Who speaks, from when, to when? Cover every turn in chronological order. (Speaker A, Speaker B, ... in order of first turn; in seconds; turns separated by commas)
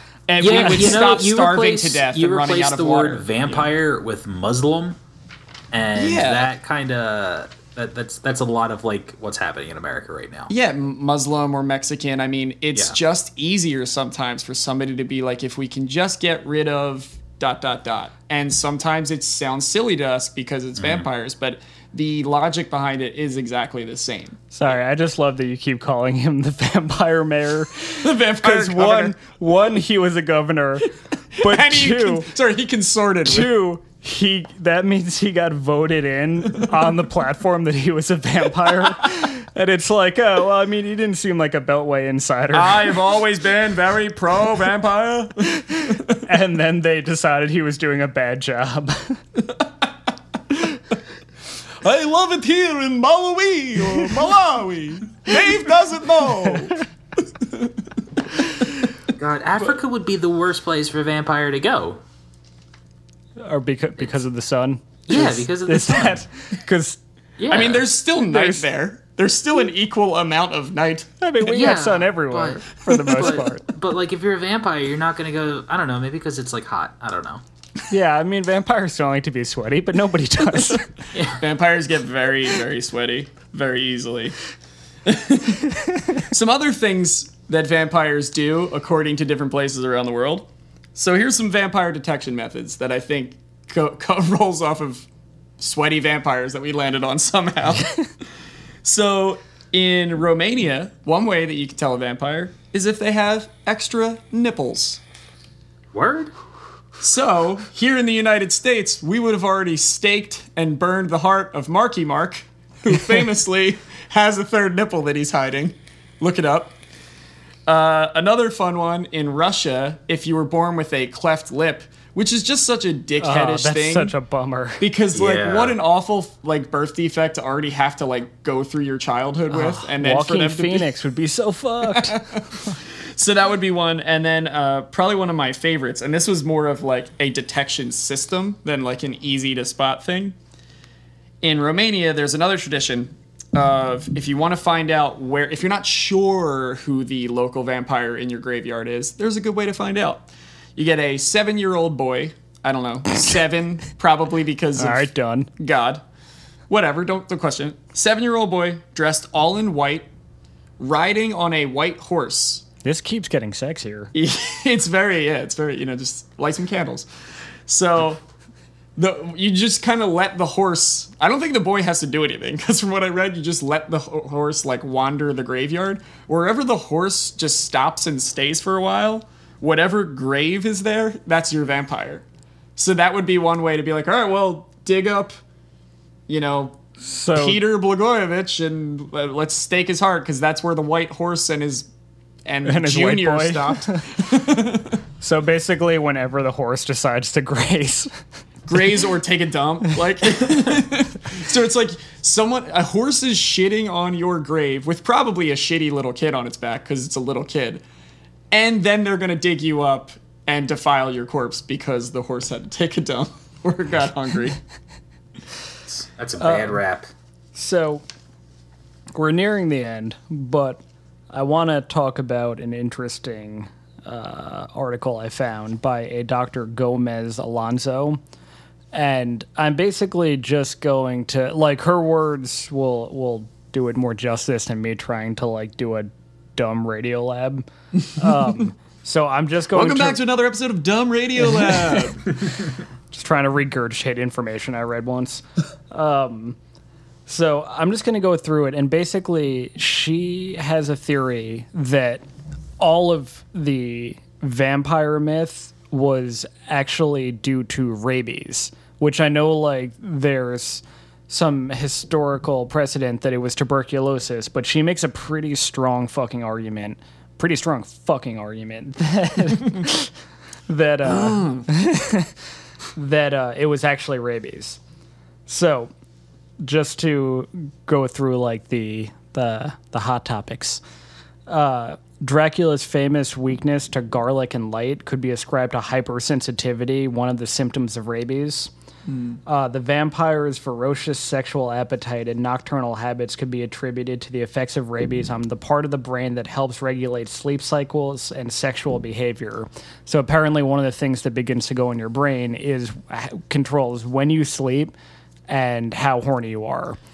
Speaker A: 0.3-3.7, Speaker B: 0.4-5.0, Speaker B: 5.7-10.5, Speaker A: 6.0-6.5, Speaker A: 10.5-24.7, Speaker B: 20.8-21.1, Speaker C: 24.5-30.9, Speaker A: 28.0-29.2, Speaker A: 31.4-33.5, Speaker C: 31.4-32.3, Speaker C: 33.2-43.0, Speaker A: 42.5-46.1, Speaker C: 46.2-49.2, Speaker A: 51.8-56.8, Speaker C: 56.4-56.7, Speaker A: 57.4-57.7, Speaker B: 59.1-62.0, Speaker C: 63.4-67.0, Speaker B: 65.1-66.2, Speaker B: 67.4-67.9, Speaker A: 67.5-71.1, Speaker C: 68.2-68.6, Speaker C: 71.2-73.7, Speaker B: 71.5-77.4, Speaker C: 77.9-80.9, Speaker B: 81.1-81.4, Speaker A: 81.4-84.4, Speaker A: 85.1-95.1, Speaker A: 95.6-98.0, Speaker A: 98.8-105.0, Speaker B: 105.9-106.3, Speaker A: 107.0-116.8, Speaker A: 117.7-124.1, Speaker C: 123.2-124.8, Speaker A: 124.8-130.9, Speaker B: 125.1-125.8, Speaker C: 129.5-132.8, Speaker A: 131.9-132.4, Speaker A: 133.1-140.4, Speaker A: 141.4-156.0, Speaker C: 154.8-155.5, Speaker A: 156.7-160.1, Speaker A: 160.8-162.7, Speaker C: 162.8-164.1, Speaker A: 164.1-167.1, Speaker A: 167.7-168.2, Speaker A: 169.0-182.2, Speaker A: 182.8-185.4, Speaker A: 186.3-186.8, Speaker C: 187.0-187.6, Speaker A: 187.3-191.9, Speaker A: 192.5-195.0, Speaker C: 192.7-194.0, Speaker C: 195.2-198.1, Speaker A: 198.7-207.8, Speaker A: 208.5-214.6, Speaker B: 216.2-217.1, Speaker C: 216.4-216.8, Speaker C: 217.6-218.1, Speaker C: 219.2-228.2, Speaker C: 228.9-240.2, Speaker A: 239.7-242.2, Speaker C: 243.1-246.6, Speaker C: 247.3-252.2, Speaker C: 252.8-270.1, Speaker C: 270.7-272.3, Speaker A: 271.1-271.7, Speaker C: 273.0-274.8, Speaker C: 275.5-275.9, Speaker C: 276.6-280.8, Speaker C: 281.5-288.7, Speaker C: 289.5-304.9, Speaker C: 305.5-307.0